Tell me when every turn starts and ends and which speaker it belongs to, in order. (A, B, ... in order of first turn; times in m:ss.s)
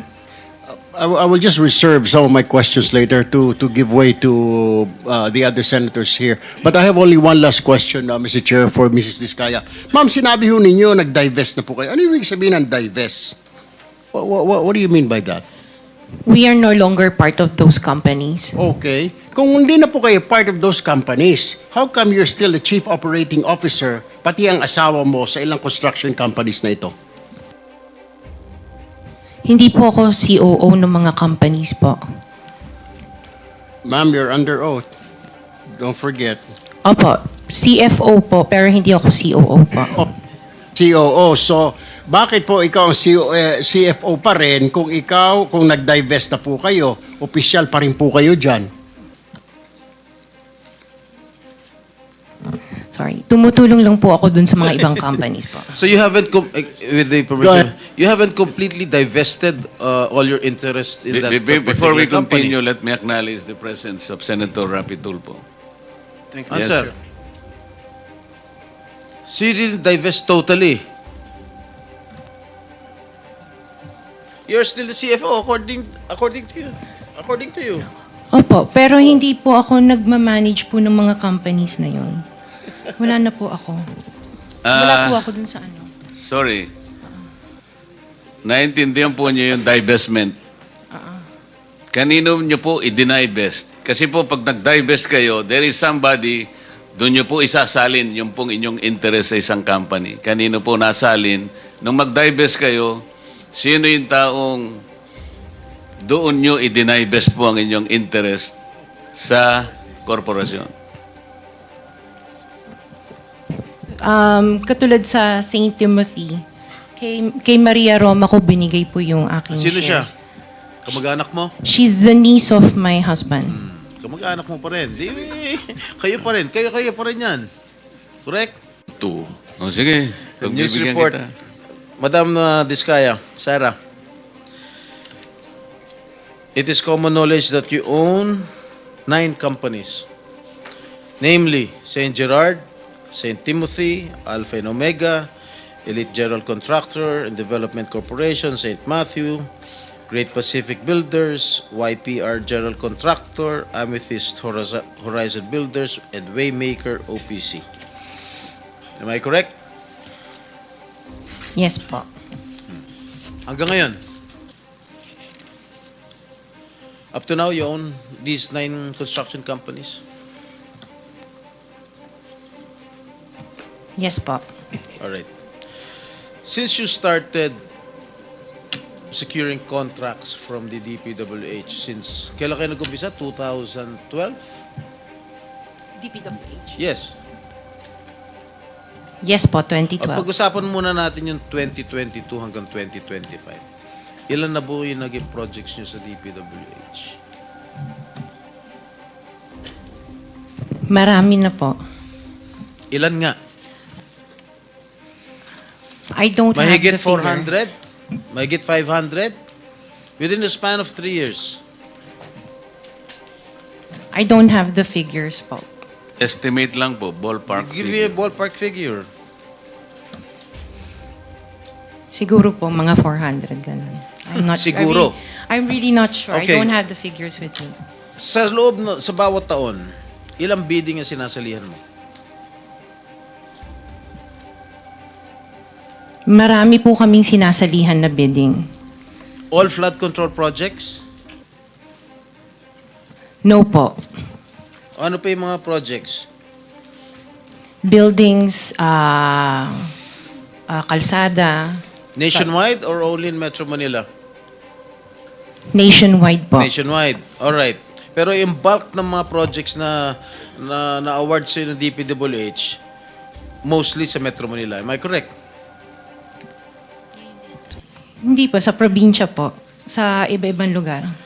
0:00.9-0:13.4 A
0:14.1-0:15.4 A
0:16.2-0:18.5 B
0:18.6-0:26.9 A
0:29.4-0:32.0 B
0:33.8-0:34.8 A
0:35.8-0:36.4 A
0:36.8-0:40.0 B
0:40.8-0:48.7 A
0:52.9-0:55.7 B
0:55.7-1:02.5 C
0:57.4-0:57.6 A
1:01.1-1:05.4 D
1:06.4-1:06.9 C
1:06.5-1:06.9 D
1:09.3-1:10.8 C
1:14.5-1:17.9 C
1:18.3-1:22.2 B
1:23.0-1:23.8 B
1:24.6-1:25.2 D
1:24.7-1:25.9 B
1:26.2-1:26.7 D
1:28.4-1:30.4 D
1:30.9-1:31.2 B
1:31.9-1:44.8 D
1:46.0-1:48.6 D
1:49.1-1:50.7 D
1:54.0-1:56.4 B
1:57.0-2:00.1 B
1:59.5-2:00.1 C
2:00.8-2:01.5 C
2:01.6-2:03.6 B
2:03.5-2:07.5 C
2:08.2-2:08.5 C
2:09.0-2:11.3 D
2:10.4-2:11.2 C
2:12.0-2:13.8 C
2:16.5-2:18.5 C
2:19.1-2:20.0 C
2:21.2-2:25.3 C
2:25.8-2:29.5 C
2:30.1-2:37.6 C
2:39.0-2:39.5 C
2:41.5-2:42.0 B
2:43.5-2:44.0 C
2:47.1-2:50.0 C
2:54.0-2:54.4 B
2:55.0-2:55.2 C
2:56.4-2:57.6 C
2:59.1-3:04.4 C
3:06.0-3:06.8 B
3:06.8-3:07.1 C
3:09.2-3:10.2 B
3:10.0-3:13.6 C
3:14.3-3:17.2 C
3:20.9-3:21.8 B
3:22.9-3:23.4 C
3:26.1-3:27.5 B
3:26.5-3:27.7 C
3:28.3-3:29.4 C
3:30.2-3:31.6 C
3:34.1-3:35.7 B
3:36.2-3:38.1 D
3:37.5-3:39.0 C
3:42.1-3:47.8 B
3:44.3-3:45.1 C
3:46.3-3:46.7 C
3:48.2-3:51.8 C
3:56.3-3:58.7 B
3:59.5-4:01.0 C
4:03.4-4:04.0 B
4:05.0-4:06.2 C
4:07.8-4:09.9 B
4:10.7-4:11.8 B
4:12.2-4:14.0 C
4:15.7-4:16.7 B
4:16.6-4:22.8 C
4:23.6-4:25.3 C
4:28.2-4:31.1 B